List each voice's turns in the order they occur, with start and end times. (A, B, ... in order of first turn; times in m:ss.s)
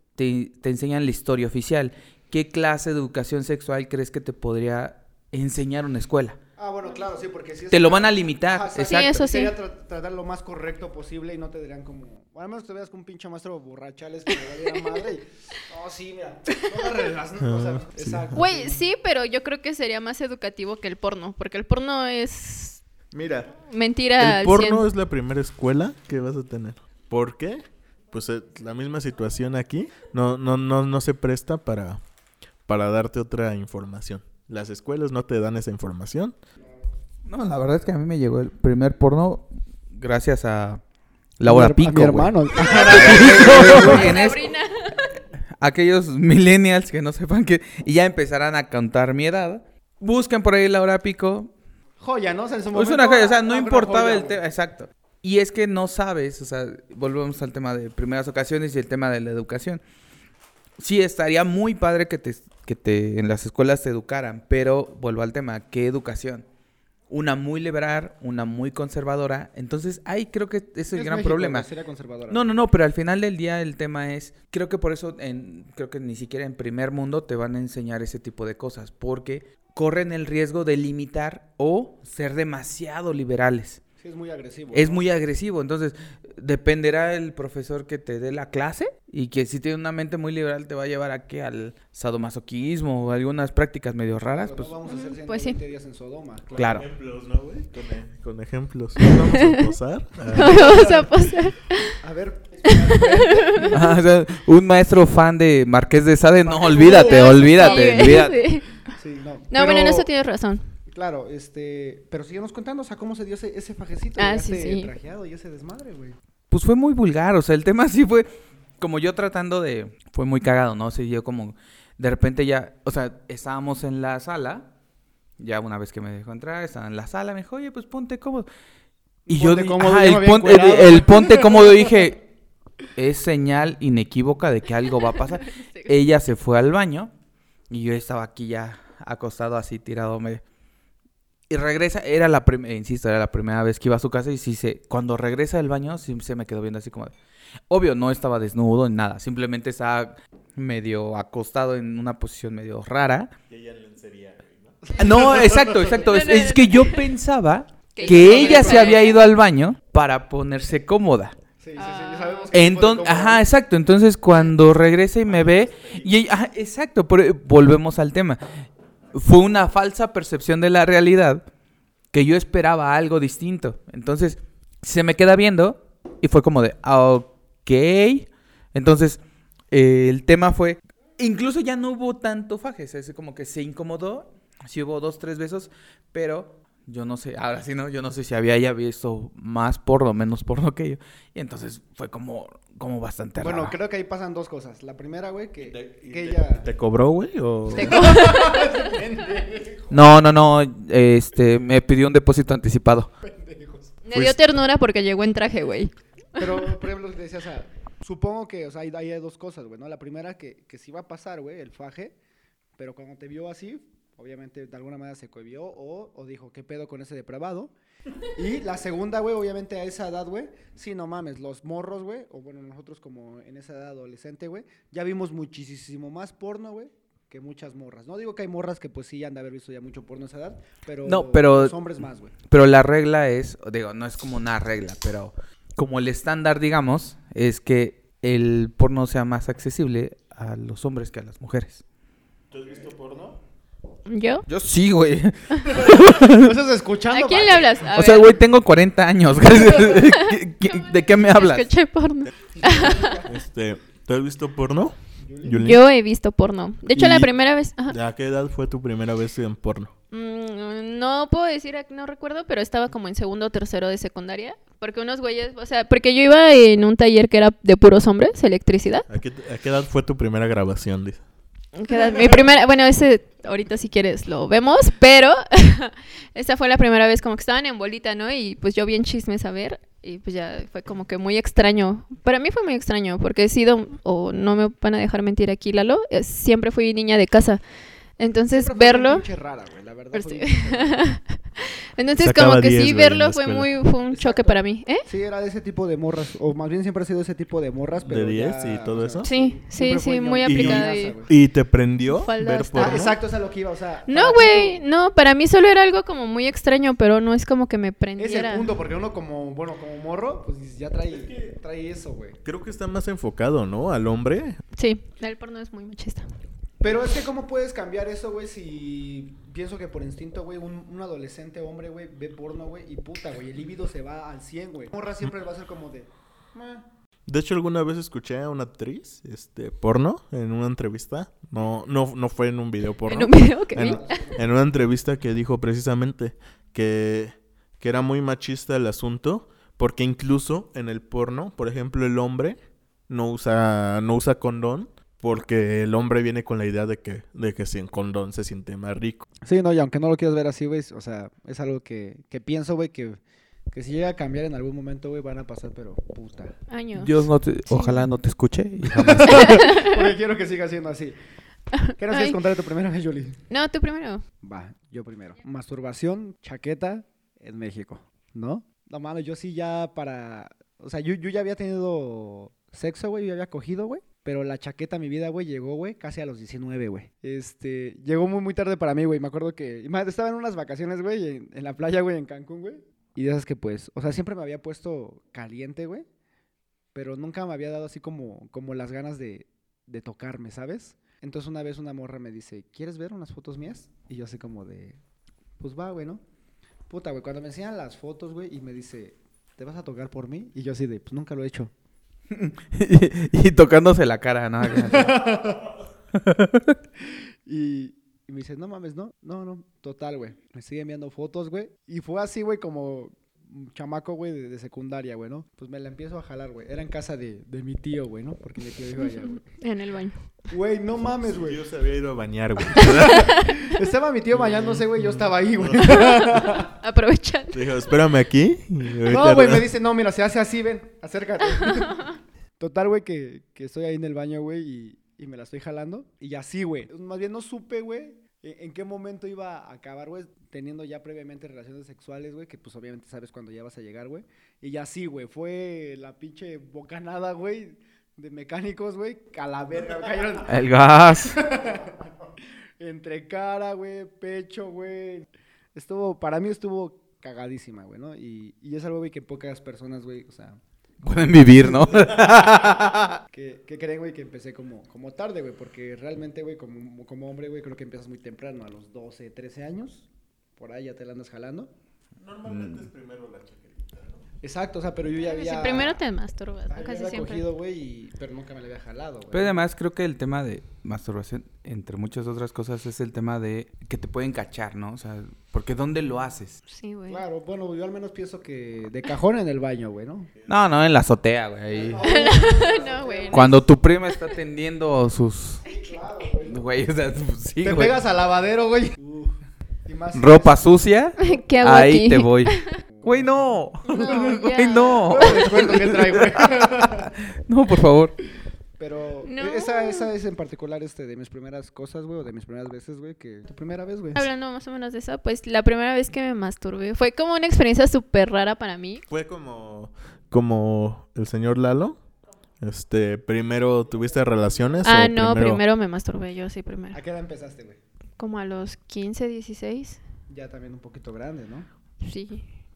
0:00.2-0:06.4 A
0:06.6-0:18.8 B
0:07.7-0:09.3 A
0:08.8-0:09.5 C
0:17.4-0:18.4 D
0:18.3-0:22.8 C
0:23.1-0:23.5 D
0:23.6-0:24.8 C
0:24.2-0:32.0 D
0:32.7-0:36.3 D
0:37.3-0:40.8 A
0:41.4-0:44.4 A
0:41.4-0:44.1 B
0:42.6-0:45.1 C
0:45.6-0:51.5 A
0:52.0-0:54.4 B
0:52.7-0:59.8 A
1:00.8-1:06.4 A
1:07.1-1:11.7 A
1:10.9-1:12.5 B
1:12.3-1:23.8 A
1:24.0-1:25.0 B
1:24.7-1:34.8 A
1:34.4-1:36.5 B
1:34.8-1:35.6 C
1:36.5-1:40.8 D
1:36.5-1:36.8 A
1:39.0-1:39.7 C
1:40.3-1:42.0 C
1:40.4-1:41.1 B
1:42.0-1:43.9 B
1:42.7-1:43.8 C
1:43.7-1:48.4 A
1:46.4-1:48.2 B
1:46.7-1:48.8 C
1:48.9-1:50.1 B
1:49.5-1:50.7 C
1:50.9-1:56.2 B
1:54.2-1:54.9 C
1:56.5-1:58.3 A
1:58.8-2:04.7 A
2:05.4-2:08.5 A
2:09.3-2:11.8 B
2:09.3-2:12.2 A
2:13.0-2:17.1 A
2:15.4-2:15.9 C
2:17.7-2:20.4 A
2:21.5-2:27.1 A
2:27.7-2:33.3 A
2:33.5-2:35.8 D
2:34.8-2:35.6 B
2:34.9-2:41.3 A
2:36.0-2:37.0 C
2:37.9-2:39.2 C
2:38.0-2:39.2 B
2:41.6-2:43.4 B
2:41.8-2:42.5 C
2:42.5-2:48.4 A
2:45.2-2:46.3 D
2:49.1-2:51.4 A
2:52.1-2:59.2 A
2:59.7-3:13.8 A
3:13.4-3:16.7 B
3:15.6-3:18.0 D
3:17.7-3:18.8 C
3:17.8-3:20.0 B
3:19.9-3:23.1 A
3:23.2-3:23.9 B
3:24.0-3:26.5 C
3:24.1-3:24.4 D
3:26.4-3:32.1 B
3:32.8-3:37.7 B
3:38.3-3:52.3 B
3:51.0-3:51.8 A
3:52.4-4:01.8 A
4:02.5-4:03.4 D
4:04.1-4:04.4 C
4:04.5-4:06.5 A
4:05.8-4:07.9 B
4:07.1-4:08.3 C
4:07.9-4:11.7 A
4:09.6-4:13.2 C
4:12.6-4:13.3 B
4:13.2-4:15.8 D
4:15.2-4:15.6 B
4:15.6-4:18.0 C
4:16.9-4:17.3 D
4:17.9-4:19.9 D
4:20.1-4:29.1 C
4:29.1-4:31.2 D
4:31.7-4:47.6 C
4:48.2-4:49.2 C
4:48.5-4:51.0 B
4:50.1-4:55.0 C
4:52.2-4:53.7 D
4:54.1-5:01.3 B
4:58.0-4:59.3 D
4:59.2-5:01.1 C
5:00.4-5:03.2 D
5:02.0-5:03.1 C
5:02.8-5:04.8 B
5:04.1-5:08.7 C
5:08.2-5:12.4 B
5:12.4-5:14.6 D
5:14.8-5:16.3 C
5:16.8-5:26.8 B
5:27.3-5:42.6 D
5:33.0-5:34.2 C
5:33.8-5:34.4 B
5:43.1-5:49.2 D
5:49.4-5:53.2 B
5:53.7-5:56.5 B
5:56.7-5:58.1 C
5:56.9-5:59.6 A
5:58.9-6:01.2 B
5:59.3-6:00.1 C
6:01.7-6:02.4 C
6:02.0-6:03.4 B
6:03.5-6:04.2 C
6:04.4-6:26.0 B
6:26.9-6:35.0 B
6:35.6-6:36.2 B
6:36.9-6:41.7 B
6:42.3-6:45.3 A
6:44.7-6:45.7 B
6:46.2-6:46.8 A
6:47.4-6:59.4 B
6:59.0-7:00.2 C
7:00.5-7:01.6 B
7:01.2-7:03.4 D
7:02.7-7:06.7 B
7:02.8-7:03.5 C
7:04.3-7:06.5 D
7:05.8-7:07.6 C
7:07.5-7:09.7 D
7:09.1-7:12.0 B
7:11.6-7:12.1 C
7:12.6-7:30.6 B
7:30.5-7:31.4 A
7:31.3-7:32.1 B
7:32.8-7:40.6 B
7:41.0-7:43.2 A
7:41.6-7:42.8 B
7:43.3-7:51.7 B
7:52.2-7:54.2 D
7:52.5-7:52.8 A
7:54.4-7:56.0 B
7:55.2-7:57.4 C
7:56.7-7:59.6 B
7:59.3-8:06.6 A
8:06.7-8:07.2 C
8:07.1-8:10.3 B
8:10.5-8:12.1 A
8:11.7-8:13.6 B
8:12.0-8:13.6 C
8:13.3-8:15.6 A
8:15.6-8:16.6 B
8:16.5-8:17.9 A
8:17.6-8:20.6 B
8:20.1-8:28.1 A
8:21.2-8:22.6 C
8:22.9-8:27.1 B
8:23.9-8:25.6 C
8:28.8-8:34.3 B
8:29.2-8:30.1 C
8:34.1-8:39.0 C
8:39.1-8:42.0 D
8:42.6-8:45.6 D
8:44.8-8:47.0 C
8:46.9-8:47.8 B
8:48.2-8:50.0 C
8:50.3-8:51.7 B
8:52.0-8:52.4 C